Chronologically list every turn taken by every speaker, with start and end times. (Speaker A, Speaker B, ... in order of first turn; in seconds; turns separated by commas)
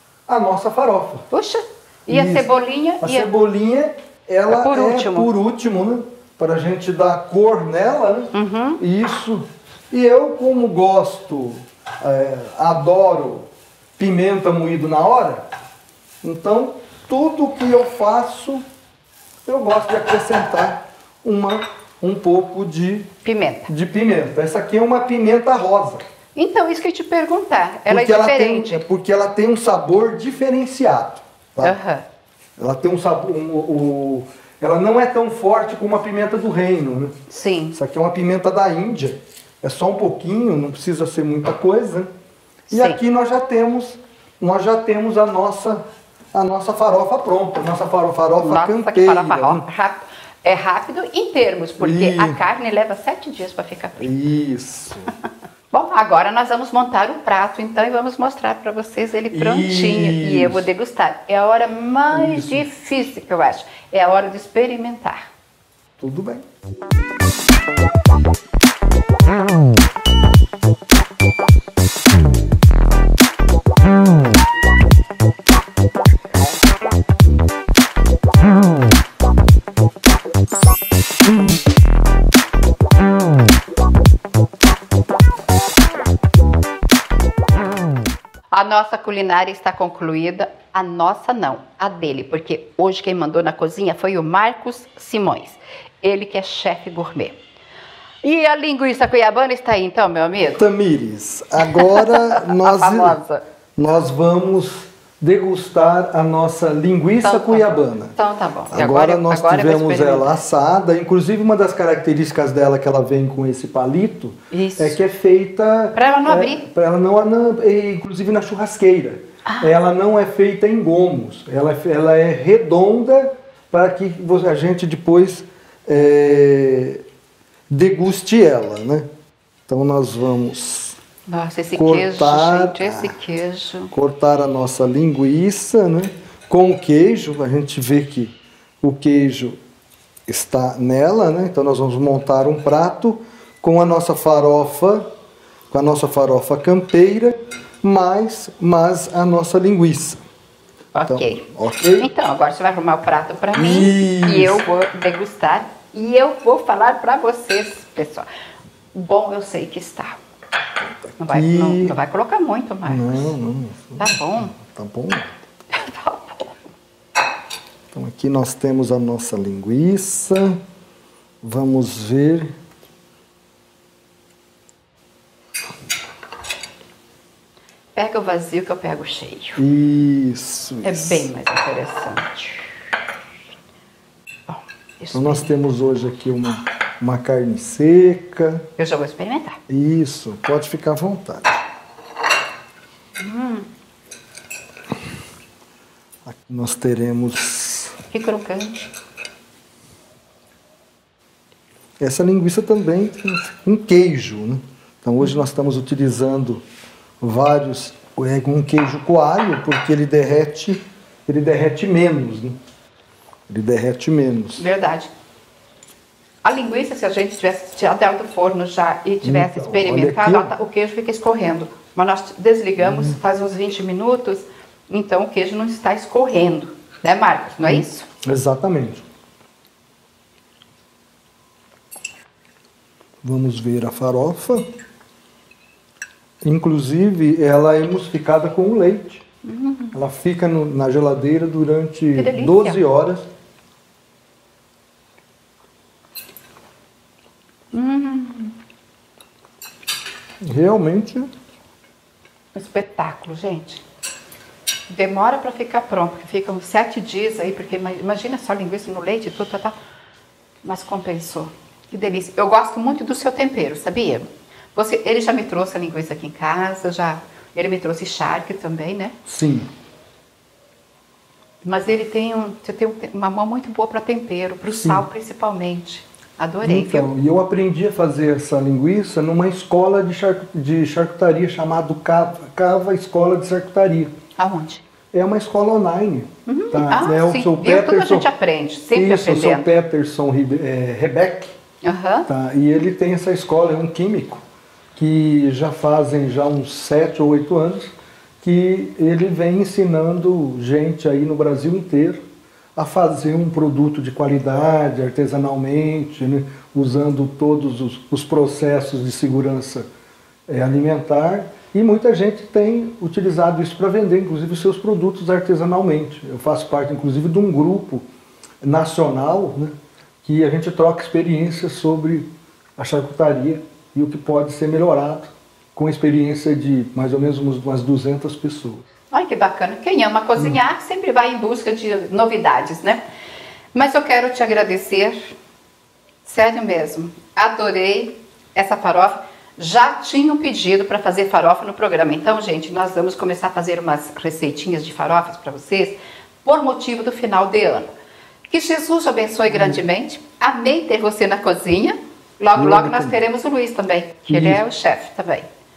Speaker A: 0.3-1.2, Speaker B: 1.3-3.3, Speaker A: 2.1-15.4, Speaker B: 4.5-5.3, Speaker B: 8.3-8.8, Speaker A: 16.2-18.6, Speaker A: 19.4-23.1, Speaker B: 23.2-23.7, Speaker A: 23.7-26.0, Speaker B: 26.3-28.8, Speaker A: 27.9-31.8, Speaker B: 31.6-32.0, Speaker A: 32.6-37.1, Speaker B: 37.3-37.8, Speaker A: 37.7-42.1, Speaker B: 42.7-43.0, Speaker A: 42.7-45.8, Speaker A: 46.3-49.6, Speaker B: 48.4-54.1, Speaker A: 51.8-52.4, Speaker A: 54.0-55.1, Speaker B: 55.7-65.2, Speaker A: 59.3-60.7, Speaker A: 62.1-62.6, Speaker A: 66.0-66.4, Speaker B: 88.5-97.3, Speaker B: 98.2-100.6, Speaker A: 100.5-103.2, Speaker B: 101.6-103.4, Speaker A: 103.8-108.1, Speaker B: 107.2-110.4, Speaker A: 108.7-127.0, Speaker B: 114.5-115.0, Speaker B: 115.9-116.6, Speaker B: 119.5-119.7, Speaker A: 127.7-129.1, Speaker A: 129.7-131.0, Speaker B: 131.3-133.9, Speaker A: 131.7-133.1, Speaker A: 133.9-139.6, Speaker A: 140.3-145.1, Speaker A: 145.7-150.2, Speaker B: 150.9-158.2, Speaker A: 151.1-152.1, Speaker A: 153.5-154.6, Speaker B: 158.9-160.2, Speaker A: 160.8-161.9, Speaker B: 161.2-163.3, Speaker A: 162.8-165.3, Speaker B: 164.0-164.5, Speaker B: 165.7-166.6, Speaker A: 167.9-170.6, Speaker A: 171.4-172.5, Speaker B: 177.9-179.6, Speaker A: 179.6-181.3, Speaker B: 180.8-182.7, Speaker B: 184.5-185.5, Speaker A: 185.1-188.6, Speaker B: 188.8-189.6, Speaker A: 189.7-191.6, Speaker B: 193.2-193.7, Speaker A: 196.2-197.9, Speaker B: 198.1-198.8, Speaker A: 202.0-206.6, Speaker A: 207.2-212.6, Speaker A: 213.5-214.6, Speaker B: 214.6-215.1, Speaker B: 216.4-228.1, Speaker A: 219.2-220.5, Speaker A: 222.8-223.2, Speaker A: 227.7-229.0, Speaker A: 233.2-234.7, Speaker A: 236.4-239.2, Speaker B: 239.4-239.9, Speaker A: 239.9-243.3, Speaker B: 242.1-242.8, Speaker B: 247.7-248.6, Speaker A: 250.4-251.3, Speaker B: 252.5-253.8, Speaker B: 254.9-259.7, Speaker B: 260.6-269.1, Speaker A: 269.2-269.7, Speaker B: 271.6-277.1, Speaker A: 276.6-284.1, Speaker B: 284.4-284.8, Speaker A: 285.1-288.3, Speaker B: 286.5-289.8, Speaker A: 288.9-291.5, Speaker B: 291.8-292.3, Speaker A: 292.3-294.4, Speaker A: 294.9-297.9, Speaker A: 298.4-302.2, Speaker A: 302.8-309.9, Speaker A: 310.5-318.0, Speaker A: 318.6-319.7, Speaker A: 320.2-328.8, Speaker B: 329.1-333.0, Speaker B: 333.7-335.3, Speaker B: 336.2-347.9, Speaker B: 348.5-355.5, Speaker A: 349.5-349.8, Speaker A: 352.5-353.2, Speaker A: 354.2-354.6